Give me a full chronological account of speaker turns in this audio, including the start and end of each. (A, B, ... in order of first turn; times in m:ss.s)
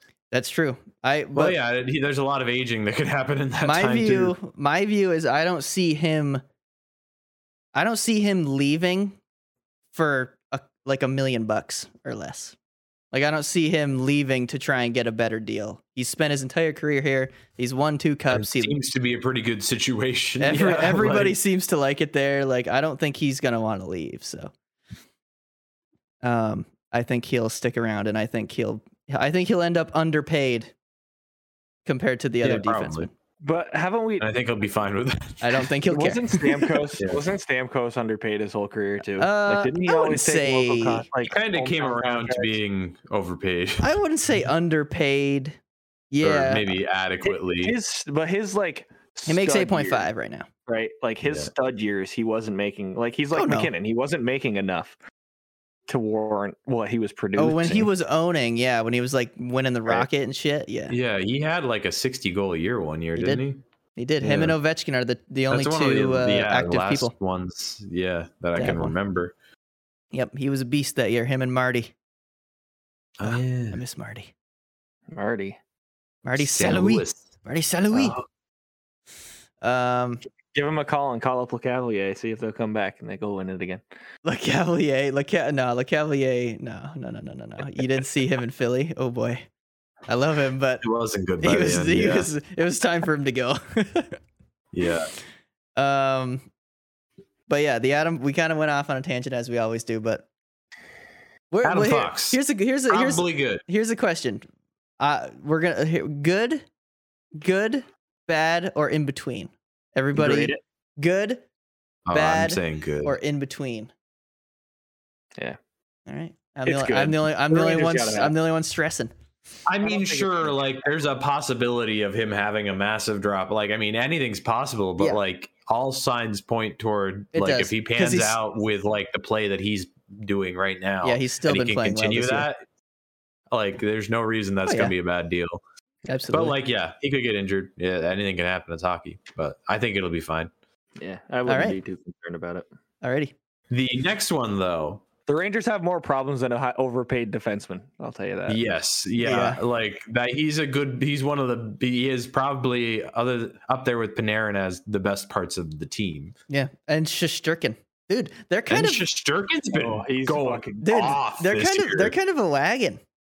0:00.3-0:01.6 A
0:01.4-0:04.4 B
0:03.6-0:06.4 A
0:07.8-0:09.2 A
0:09.9-0:12.6 A
0:13.1-0:18.8 A
0:18.3-0:21.4 B
0:20.4-0:24.5 A
0:26.2-0:30.7 A
0:31.9-0:33.1 A
0:32.4-0:33.1 B
0:33.4-0:34.3 C
0:34.2-0:35.7 B
0:35.4-0:36.9 A
0:35.9-0:42.6 C
0:37.0-0:37.2 B
0:39.2-0:41.1 A
0:41.3-0:44.0 B
0:43.8-0:45.6 A
0:46.1-0:46.7 A
0:46.2-0:47.8 B
0:47.3-0:50.1 C
0:49.3-0:50.5 A
0:50.7-0:55.0 C
0:51.2-0:51.5 B
0:53.3-0:53.7 A
0:55.9-0:57.9 C
0:57.4-1:01.0 A
1:00.9-1:03.6 B
1:03.2-1:03.4 A
1:04.0-1:07.1 A
1:04.2-1:04.6 B
1:05.5-1:09.3 B
1:08.6-1:08.9 A
1:10.1-1:11.9 A
1:13.2-1:13.8 B
1:13.2-1:14.3 A
1:15.1-1:15.6 C
1:16.2-1:18.2 A
1:16.4-1:17.3 B
1:17.9-1:18.2 B
1:19.6-1:20.2 A
1:20.5-1:23.8 C
1:24.2-1:29.5 A
1:30.1-1:30.8 A
1:30.8-1:32.3 B
1:31.4-1:34.2 A
1:34.7-1:35.1 B
1:35.8-1:36.5 A
1:37.5-1:40.3 A
1:41.5-1:44.5 A
1:41.6-1:43.6 B
1:45.0-1:46.6 A
1:47.4-1:51.4 A
1:50.2-1:50.6 C
1:52.1-1:53.2 B
1:52.1-1:53.9 A
1:56.1-1:59.1 A
1:56.7-1:58.3 C
1:59.7-2:12.6 B
1:59.8-2:00.5 C
2:07.3-2:08.4 A
2:11.0-2:12.5 A
2:13.5-2:15.6 B
2:14.7-2:14.9 A
2:16.1-2:16.6 A
2:16.3-2:20.5 B
2:21.0-2:22.6 C
2:21.5-2:21.8 A
2:23.0-2:23.3 A
2:23.7-2:25.0 B
2:25.3-2:28.6 C
2:28.5-2:36.3 B
2:29.2-2:29.6 A
2:36.5-2:39.0 A
2:38.7-2:42.2 B
2:39.7-2:41.2 C
2:40.8-2:43.0 A